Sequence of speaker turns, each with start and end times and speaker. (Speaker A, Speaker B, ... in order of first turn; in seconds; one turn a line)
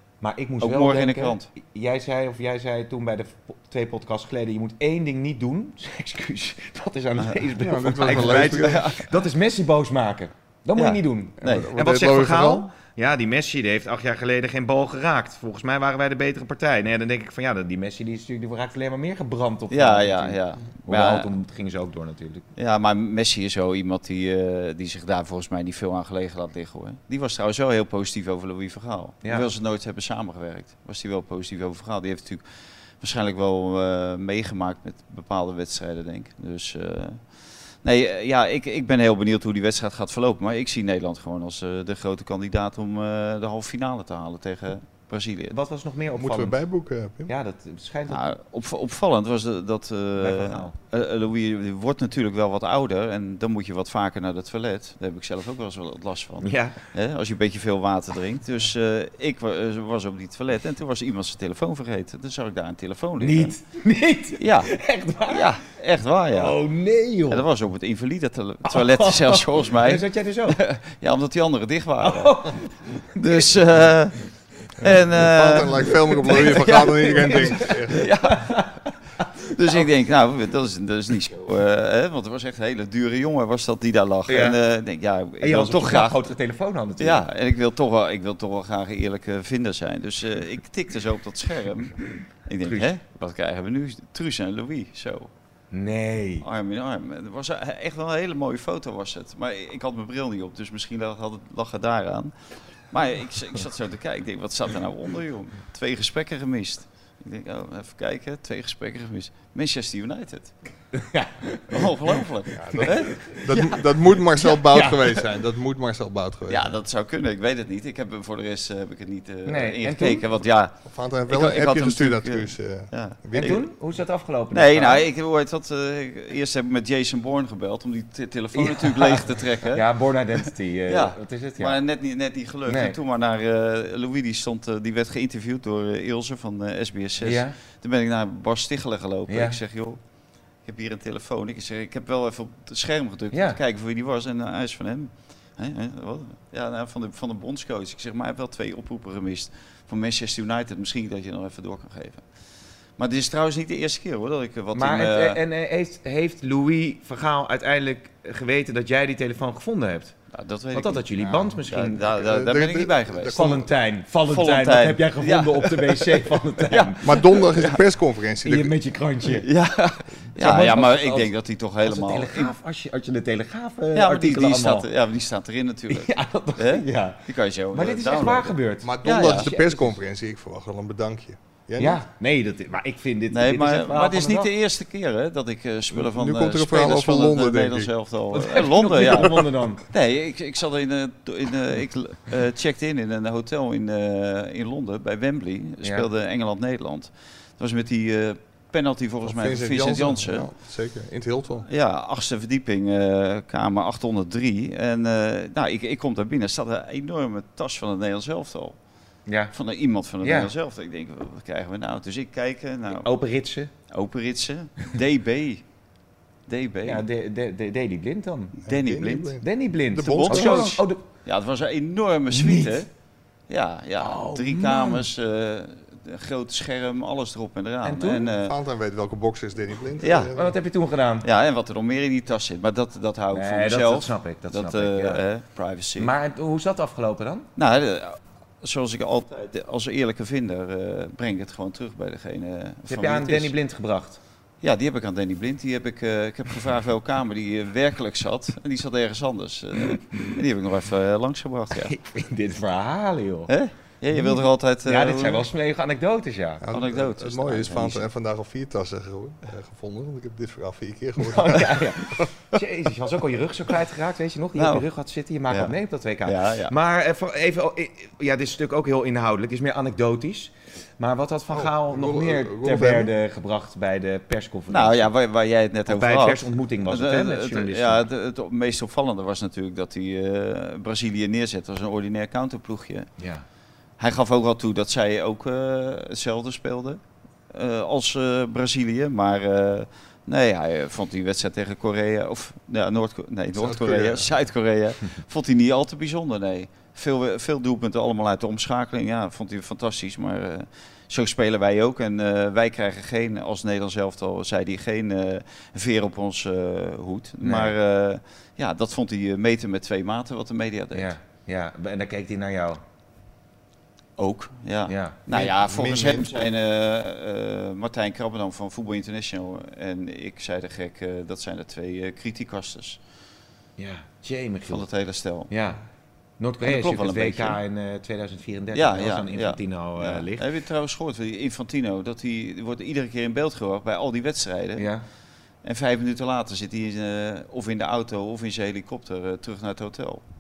Speaker A: 0.2-22.4
Speaker B: 0.6-1.5
Speaker C: 7.6-8.9
Speaker B: 8.1-9.1
Speaker B: 10.8-11.7
Speaker C: 11.4-12.7
Speaker B: 19.7-21.3
Speaker B: 22.6-32.4
Speaker B: 33.0-37.3
Speaker B: 37.8-45.5
Speaker A: 45.5-46.6
Speaker C: 46.1-47.3
Speaker A: 47.3-48.3
Speaker B: 48.1-63.5
Speaker A: 50.2-50.7
Speaker A: 56.4-56.8
Speaker A: 63.2-65.5
Speaker B: 64.4-64.7
Speaker B: 65.3-66.6
Speaker A: 66.3-67.5
Speaker B: 67.3-74.2
Speaker A: 68.7-70.6
Speaker A: 72.0-73.5
Speaker B: 74.8-78.7
Speaker C: 74.8-78.0
Speaker A: 76.2-79.9
Speaker B: 79.5-86.3
Speaker A: 84.3-84.6
Speaker A: 85.4-87.2
Speaker B: 87.0-95.3
Speaker A: 92.6-92.9
Speaker A: 95.7-96.5
Speaker B: 96.4-102.3
Speaker B: 102.9-110.5
Speaker A: 110.9-112.2
Speaker B: 111.7-113.8
Speaker C: 112.5-116.8
Speaker A: 112.8-113.4
Speaker A: 114.7-115.2
Speaker B: 116.5-123.6
Speaker A: 119.5-120.2
Speaker C: 120.9-123.6
Speaker A: 123.3-125.0
Speaker B: 124.5-129.9
Speaker A: 128.5-131.8
Speaker B: 130.9-140.0
Speaker A: 132.7-133.0
Speaker A: 137.2-137.6
Speaker A: 139.3-139.6
Speaker B: 140.6-152.2
Speaker A: 143.3-143.6
Speaker B: 153.0-155.4
Speaker A: 154.7-160.1
Speaker B: 160.3-163.6
Speaker A: 160.7-162.0
Speaker C: 161.2-163.7
Speaker A: 163.3-167.0
Speaker B: 164.2-167.8
Speaker C: 167.0-168.7
Speaker A: 168.4-169.5
Speaker B: 169.3-172.5
Speaker A: 170.4-171.3
Speaker A: 171.8-174.9
Speaker B: 173.9-179.5
Speaker A: 175.9-179.9
Speaker C: 178.8-182.0
Speaker A: 181.8-184.5
Speaker B: 183.3-200.5
Speaker C: 185.9-187.9
Speaker A: 188.3-189.8
Speaker C: 199.2-201.7
Speaker B: 201.7-208.8
Speaker A: 209.3-209.5
Speaker B: 209.5-213.1
Speaker A: 210.2-210.5
Speaker A: 212.9-213.7
Speaker B: 213.9-215.6
Speaker B: 216.5-217.0
Speaker A: 216.8-218.6
Speaker B: 218.7-219.4
Speaker C: 218.7-220.8
Speaker A: 219.4-221.0
Speaker B: 220.0-222.9
Speaker A: 222.3-222.9
Speaker B: 223.5-228.5
Speaker A: 224.0-225.1
Speaker A: 227.8-228.3
Speaker C: 228.3-230.5
Speaker B: 230.0-230.3
Speaker A: 230.3-231.2
Speaker B: 231.2-236.1
Speaker A: 233.3-235.2
Speaker A: 236.0-237.5
Speaker B: 237.6-243.5
Speaker A: 242.9-244.2
Speaker B: 244.6-252.0
Speaker A: 251.8-253.5
Speaker B: 253.5-255.5
Speaker A: 254.8-256.6
Speaker C: 256.6-262.3
Speaker B: 256.7-258.0
Speaker A: 261.2-275.1
Speaker B: 264.6-264.8
Speaker B: 265.5-265.7
Speaker B: 266.2-266.7
Speaker C: 271.5-273.1
Speaker B: 274.7-283.1
Speaker A: 275.9-278.0
Speaker A: 283.2-283.4
Speaker B: 284.0-287.0
Speaker B: 287.5-311.1
Speaker C: 293.5-294.3
Speaker A: 307.4-307.8
Speaker A: 310.9-312.8
Speaker B: 314.2-323.0
Speaker A: 314.9-315.8
Speaker C: 315.6-316.3
Speaker A: 323.8-324.9
Speaker B: 324.7-325.5
Speaker A: 325.5-325.8
Speaker A: 326.4-330.4
Speaker B: 326.6-327.6
Speaker B: 328.7-334.9
Speaker A: 334.8-335.0
Speaker B: 335.6-340.2